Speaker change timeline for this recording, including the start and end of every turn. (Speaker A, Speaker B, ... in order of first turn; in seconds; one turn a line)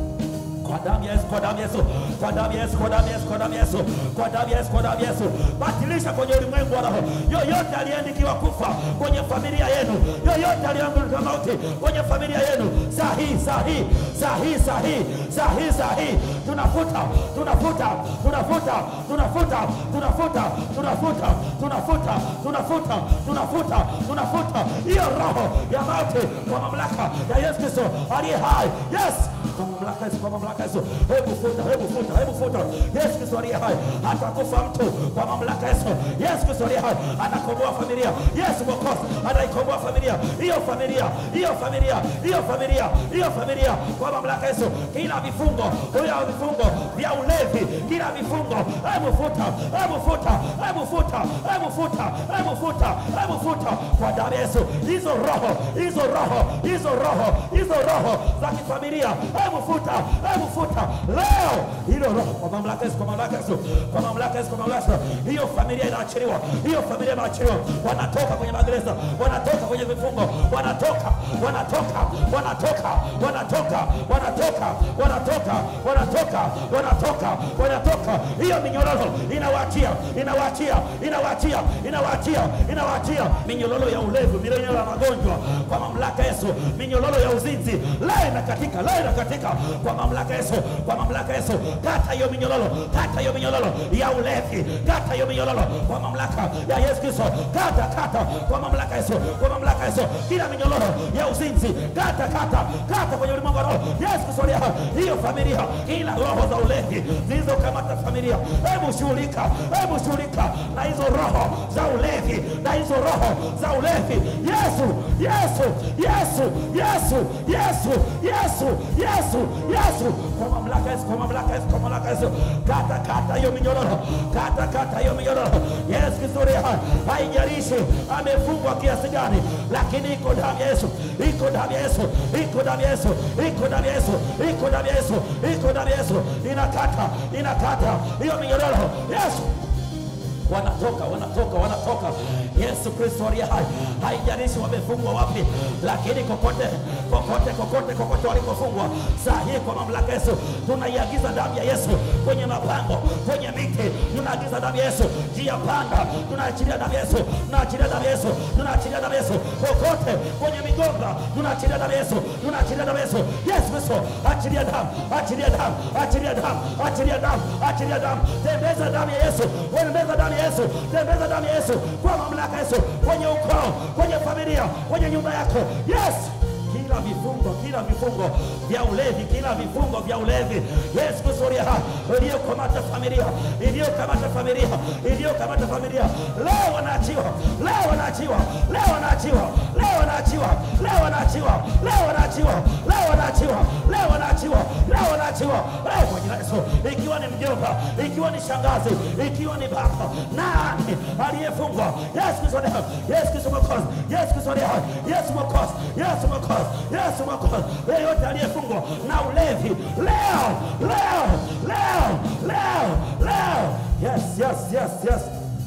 Speaker A: 0.6-139.5
Speaker A: 140.4-215.3